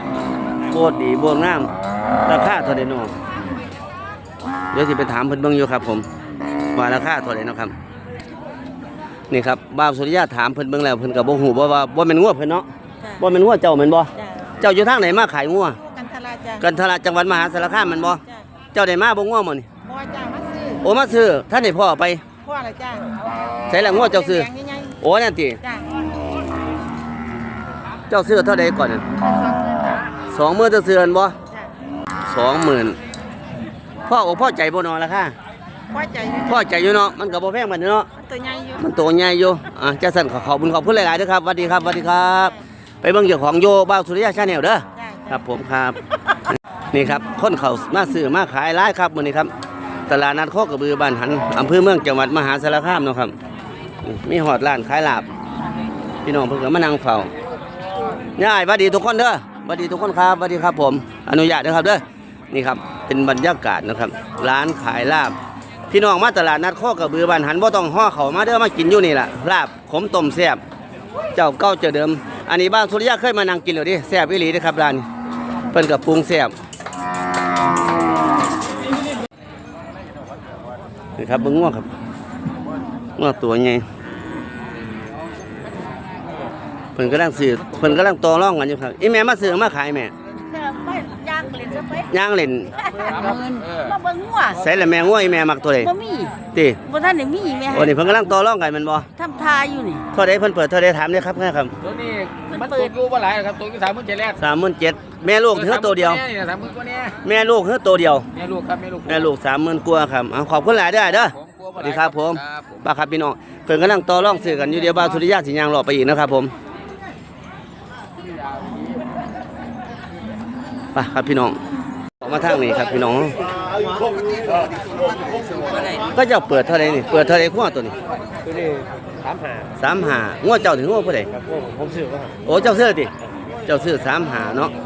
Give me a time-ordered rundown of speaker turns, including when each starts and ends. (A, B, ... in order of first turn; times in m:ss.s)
0:00.7-0:01.7 A
0:02.3-0:03.1 A
0:04.7-0:06.1 A
0:06.7-0:07.7 A
0:09.3-0:12.7 A
0:13.2-0:15.8 A
0:14.2-0:14.5 B
0:15.8-0:16.6 B
0:16.6-0:18.2 A
0:18.7-0:19.7 A
0:19.8-0:20.8 B
0:20.8-0:22.2 A
0:22.4-0:23.2 B
0:23.7-0:24.5 A
0:24.0-0:25.0 B
0:25.0-0:25.6 A
0:25.6-0:25.9 B
0:28.1-0:29.0 A
0:29.2-0:30.0 B
0:30.3-0:31.4 A
0:32.3-0:33.0 A
0:34.1-0:35.4 A
0:35.9-0:36.6 B
0:36.5-0:38.1 A
0:38.2-0:38.8 B
0:38.8-0:46.0 A
0:45.0-0:45.4 B
0:46.5-0:49.5 A
0:50.1-0:53.4 A
0:54.0-0:55.3 A
0:56.2-0:57.3 A
0:58.4-1:05.4 A
1:05.9-1:10.6 A
1:11.4-1:15.1 A
1:15.7-1:16.5 A
1:21.2-1:21.9 A
1:23.2-1:23.8 A
1:27.0-1:30.1 A
1:30.4-1:32.1 B
1:32.1-1:32.8 A
1:32.7-1:34.7 B
1:33.0-1:33.9 C
1:34.5-1:35.9 A
1:35.8-1:38.1 B
1:36.5-1:36.8 A
1:37.7-1:39.1 A
1:39.2-1:40.1 B
1:40.1-1:41.7 A
1:41.8-1:44.4 C
1:42.5-1:42.9 B
1:44.4-1:46.2 A
1:45.5-1:47.2 C
1:47.2-1:48.3 A
1:48.3-1:49.2 C
1:49.1-1:56.5 A
1:51.3-1:52.7 C
2:00.9-2:01.6 A
2:02.2-2:03.4 A
2:06.1-2:08.0 A
2:08.4-2:09.7 C
2:09.8-2:11.3 A
2:11.3-2:12.4 C
2:12.4-2:13.1 A
2:13.7-2:14.7 A